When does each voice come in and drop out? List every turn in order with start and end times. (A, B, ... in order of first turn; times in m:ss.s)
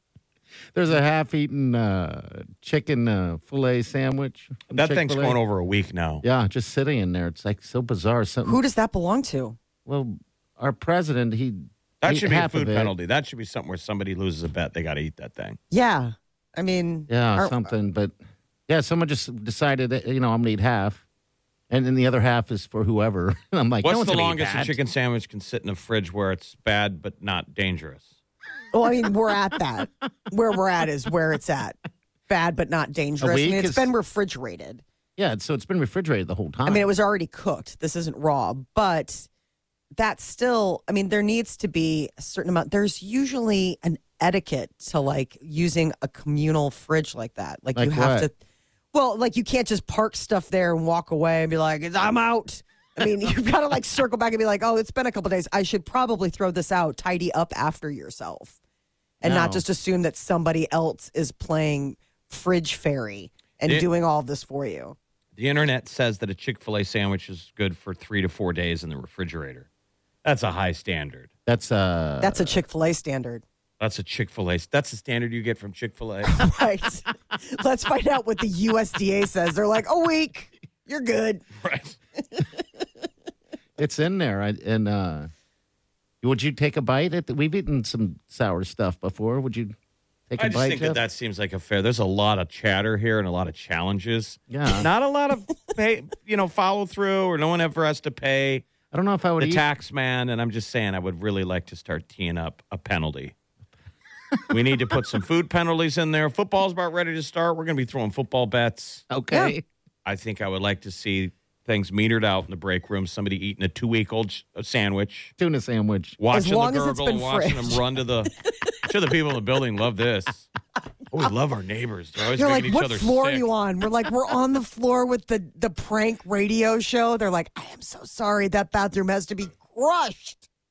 0:00.7-0:05.4 A
0:04.7-0:06.2 B
0:06.2-0:08.6 A
0:08.4-0:09.6 C
0:09.8-0:12.9 A
0:12.0-0:15.6 B
0:15.7-0:17.7 C
0:17.1-0:18.2 A
0:18.7-0:21.0 A
0:21.7-0:24.8 A
0:23.8-0:28.1 B
0:28.7-0:31.8 C
0:32.3-0:34.8 C
0:33.2-0:33.9 A
0:35.2-0:36.9 A
0:36.7-0:39.3 C
0:40.0-0:48.3 C
0:47.8-0:48.3 A
0:48.9-0:58.6 C
0:59.2-1:05.0 C
0:59.2-0:59.6 A
1:05.4-1:09.7 B
1:10.2-1:11.3 B
1:11.5-1:12.6 A
1:12.2-1:13.4 C
1:13.8-1:16.4 B
1:16.3-1:21.4 C
1:21.6-1:22.0 B
1:23.8-1:25.3 A
1:26.2-1:29.8 A
1:30.3-1:31.0 A
1:30.4-1:38.6 B
1:34.5-1:34.9 A
1:38.9-1:39.6 A
1:39.4-1:43.3 B
1:44.5-1:49.0 B
1:49.1-1:49.6 A
1:50.0-1:55.3 B
1:55.4-1:56.2 A
1:56.2-2:00.5 B
1:56.3-1:57.8 C
2:01.1-2:03.5 B
2:02.4-2:10.4 C